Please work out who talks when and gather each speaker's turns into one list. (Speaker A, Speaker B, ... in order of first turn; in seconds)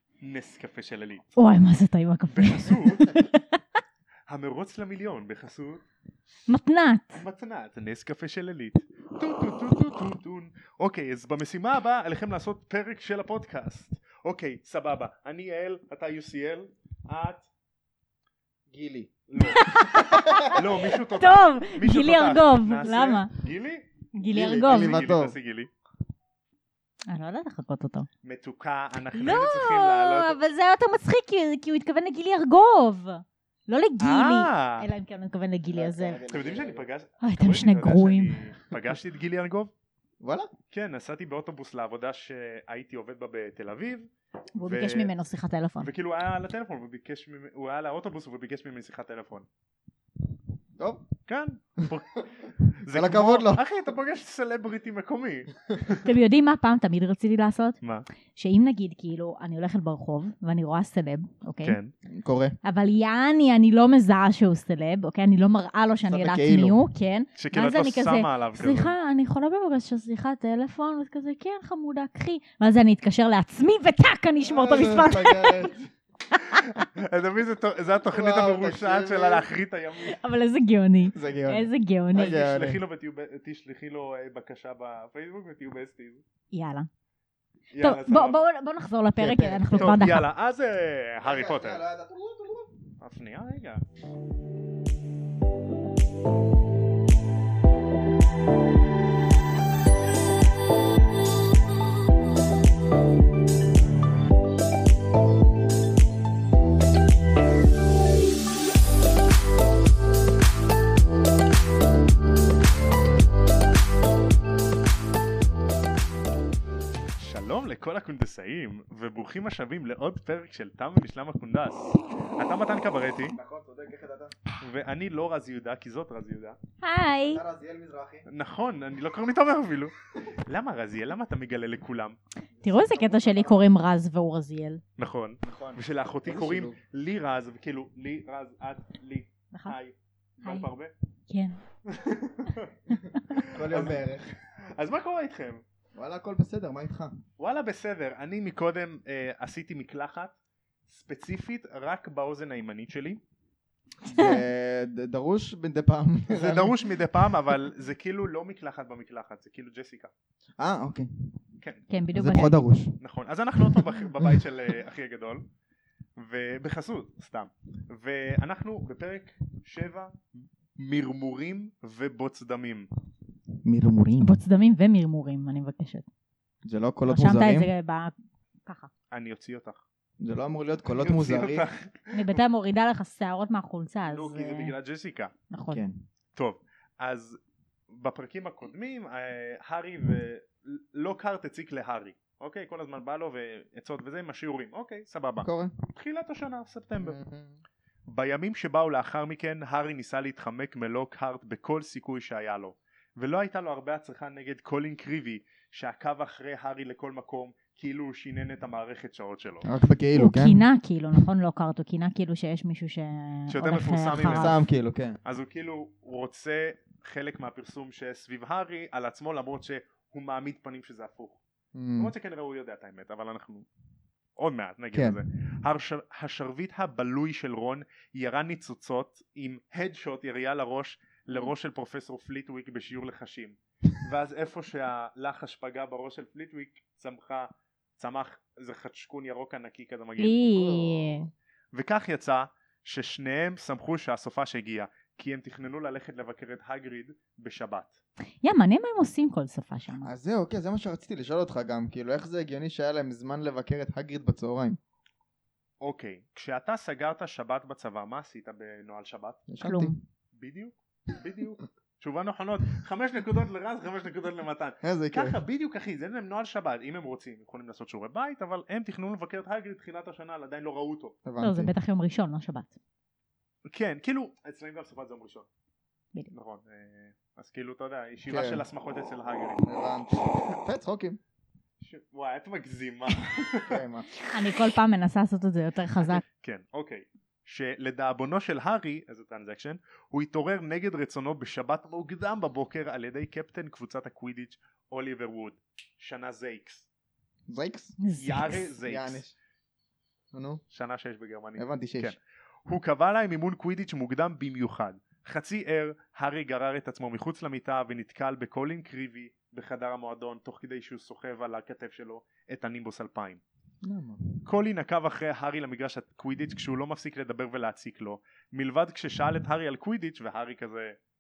Speaker A: 0.2-1.3, 2.3-3.1, 4.3-5.8, 7.1-17.5, 19.3-19.8, 20.4-25.7, 28.2-30.4, 34.0-34.9, 36.3-39.7, 40.7-44.1, 44.6-45.1, 45.8-49.5, 51.2-56.0, 61.6-61.9, 67.3-68.9, 76.5-80.2, 82.2-86.2, 87.7-88.4, 89.7-91.8, 93.0-93.8, 117.2-123.3, 124.6-126.6, 128.2-132.2, 135.0-140.9, 141.8-142.7, 143.3-144.0, 144.6-145.6, 147.4-150.3, 150.9-153.2, 156.3-160.1, 161.6-161.8, 163.0-165.4, 166.2-172.9, 179.1-179.8, 180.8-182.3, 184.1-185.3, 186.3-197.2, 198.1-209.7, 213.5-214.6, 215.2-221.4, 221.9-223.7, 224.4-240.4, 241.7-248.0, 255.8-259.4, 260.3-271.2, 273.6-275.5, 276.3-279.6, 281.8-283.8, 286.0-296.9, 298.2-299.2, 300.7-313.4, 314.4-321.0
Speaker B: 1.4-3.4, 6.5-7.2, 19.4-23.3, 24.1-25.0, 27.1-28.1, 29.1-36.2, 37.2-38.3, 44.5-45.9, 56.0-57.8, 58.3-61.8, 62.6-75.7, 76.4-76.6, 80.0-82.4, 86.5-86.9, 87.8-90.3, 126.8-127.4, 132.6-134.8, 140.4-140.7, 141.3-141.6, 161.9-162.6, 174.2-176.1, 177.1-178.1, 182.1-184.7, 185.5-185.8, 210.1-214.5, 240.2-241.3, 248.4-250.1, 259.6-259.9, 271.4-272.8, 284.3-286.2, 298.0-298.7
Speaker C: 18.7-19.1, 19.7-20.6, 24.3-25.4, 35.7-36.9, 40.2-40.5, 50.8-51.1, 52.9-53.6, 62.0-62.5, 66.1-66.8, 74.4-75.9, 78.0-79.5, 81.1-82.8, 89.2-90.0, 91.2-92.8, 123.3-124.3, 127.3-128.2, 132.5-133.7, 135.4-136.8, 143.5-144.3, 145.9-147.2, 154.0-156.9, 160.6-161.3, 162.1-163.0, 163.6-164.5, 173.6-174.4, 176.6-177.7, 180.2-181.7, 185.7-186.0, 195.4-195.7, 197.0-197.6, 209.6-210.6, 214.3-215.2, 221.7-222.1, 224.9-225.2, 240.4-241.3, 250.0-254.8, 259.5-260.0, 264.8-265.4, 271.2-271.7, 278.3-278.6, 279.6-281.2, 283.6-284.1, 297.5-298.0, 298.8-299.3, 300.3-300.6, 301.6-302.1, 313.8-314.4